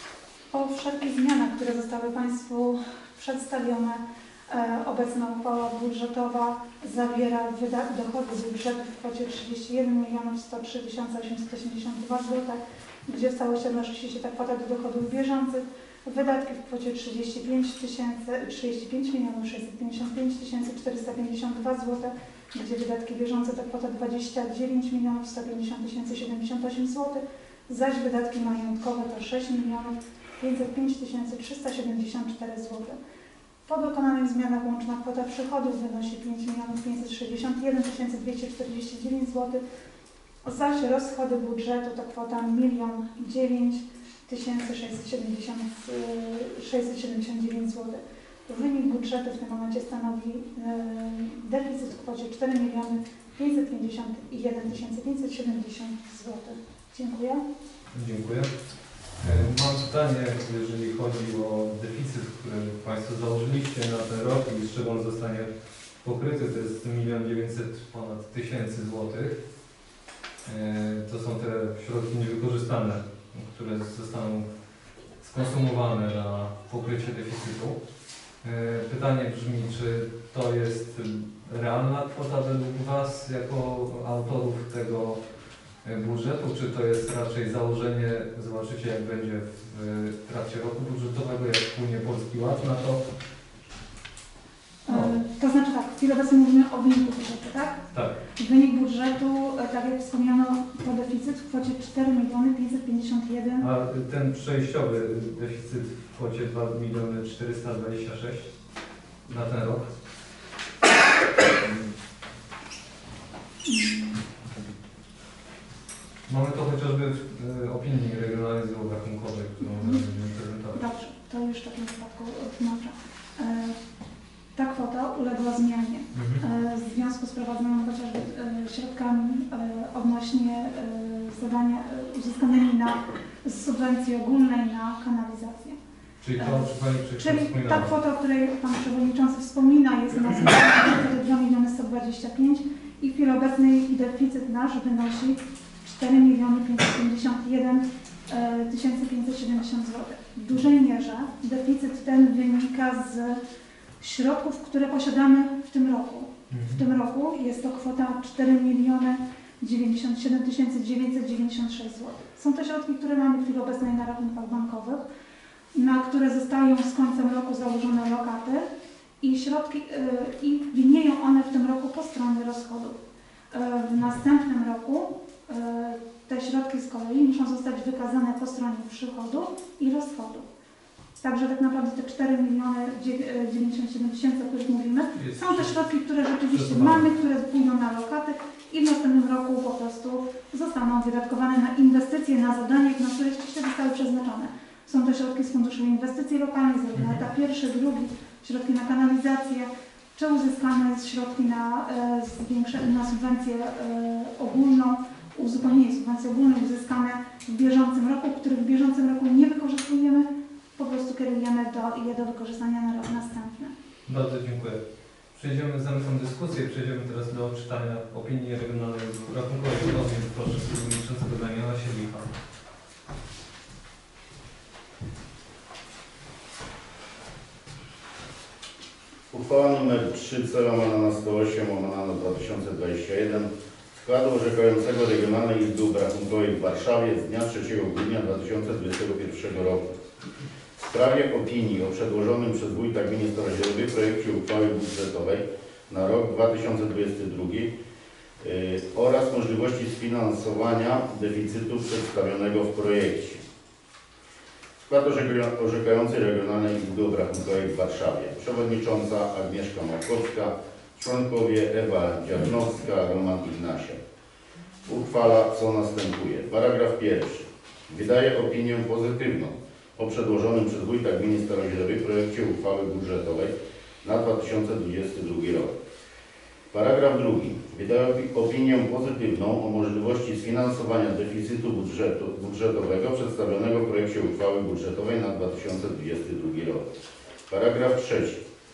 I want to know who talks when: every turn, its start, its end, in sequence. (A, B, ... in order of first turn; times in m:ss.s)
0:00.5-0:33.0 A
0:33.7-0:39.6 A
0:40.4-0:57.4 A
0:57.9-0:58.5 B
0:59.2-1:05.5 B
1:06.0-1:09.4 B
1:10.4-1:14.5 B
1:15.2-1:17.8 B
1:18.4-1:25.2 B
1:25.8-1:33.0 B
1:34.9-1:37.8 A
1:38.4-1:43.7 A
1:43.6-1:48.5 B
1:49.3-1:49.9 B
1:53.6-1:54.2 A
1:56.3-2:00.9 B
2:00.8-2:03.8 A
2:04.6-2:15.8 A
2:06.1-2:06.4 B
2:16.2-2:17.9 B
2:16.4-2:33.4 A
2:34.0-2:45.0 A
2:36.5-2:36.8 B
2:45.8-2:48.7 A
2:49.2-2:53.0 A
2:53.5-3:00.5 A
3:01.2-3:33.7 A
3:05.2-3:05.8 B
3:06.5-3:07.1 B
3:17.0-3:17.2 B
3:34.1-3:34.8 B
3:35.4-3:42.3 B
3:49.3-3:59.9 C
4:00.8-4:07.7 C
4:08.4-4:13.4 C
4:14.9-4:24.0 C
4:24.9-4:35.7 C
4:36.7-4:46.8 C
4:47.5-4:48.4 C